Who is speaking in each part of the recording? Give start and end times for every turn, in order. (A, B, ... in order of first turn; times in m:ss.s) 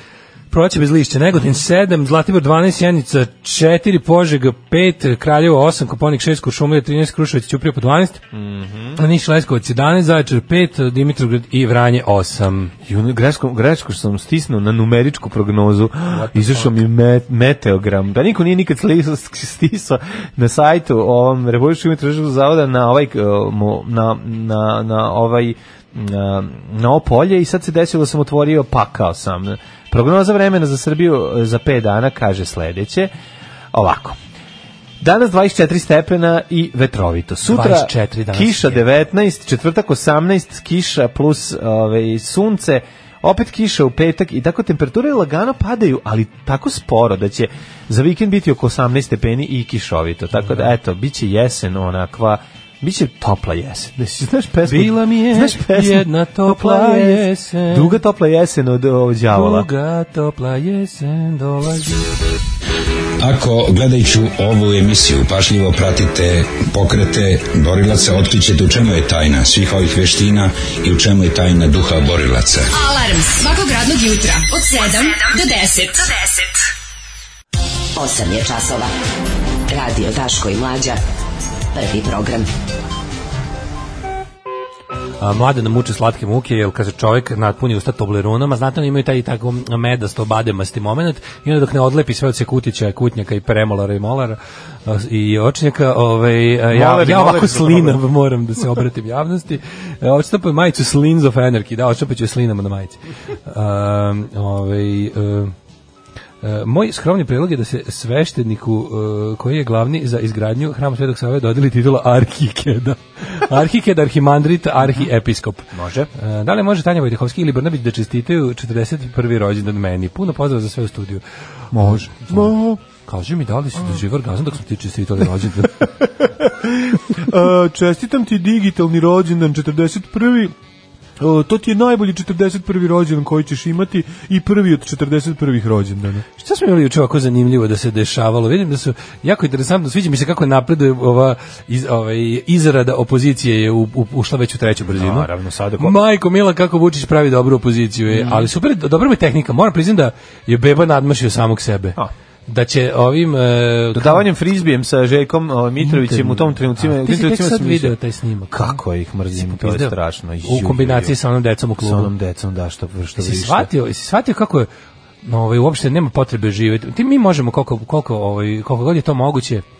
0:00.5-0:08.2 A
0:08.3-0:09.0 B
0:09.0-0:12.7 A
0:12.8-0:33.1 B
0:16.1-0:16.8 A
0:33.7-0:34.2 B
0:35.0-0:59.7 B
0:37.4-0:38.8 A
0:50.4-0:50.7 A
0:54.6-0:58.0 A
0:59.3-1:02.0 A
1:03.2-1:12.7 C
1:12.7-1:16.5 D
1:17.9-1:18.9 E
1:19.7-1:21.0 E
1:21.7-1:22.5 E
1:25.2-1:45.5 A
1:36.7-1:38.0 B
1:46.4-2:01.2 A
1:55.7-1:56.1 B
2:01.7-2:02.8 B
2:01.8-2:06.0 A
2:06.2-2:10.5 B
2:11.2-2:16.2 B
2:16.4-2:34.3 A
2:24.8-2:26.0 B
2:28.1-2:28.5 B
2:33.9-2:37.9 B
2:35.8-2:38.8 A
2:38.5-2:41.2 B
2:39.3-2:42.1 A
2:41.8-2:43.7 B
2:43.2-2:44.7 A
2:45.2-2:49.6 A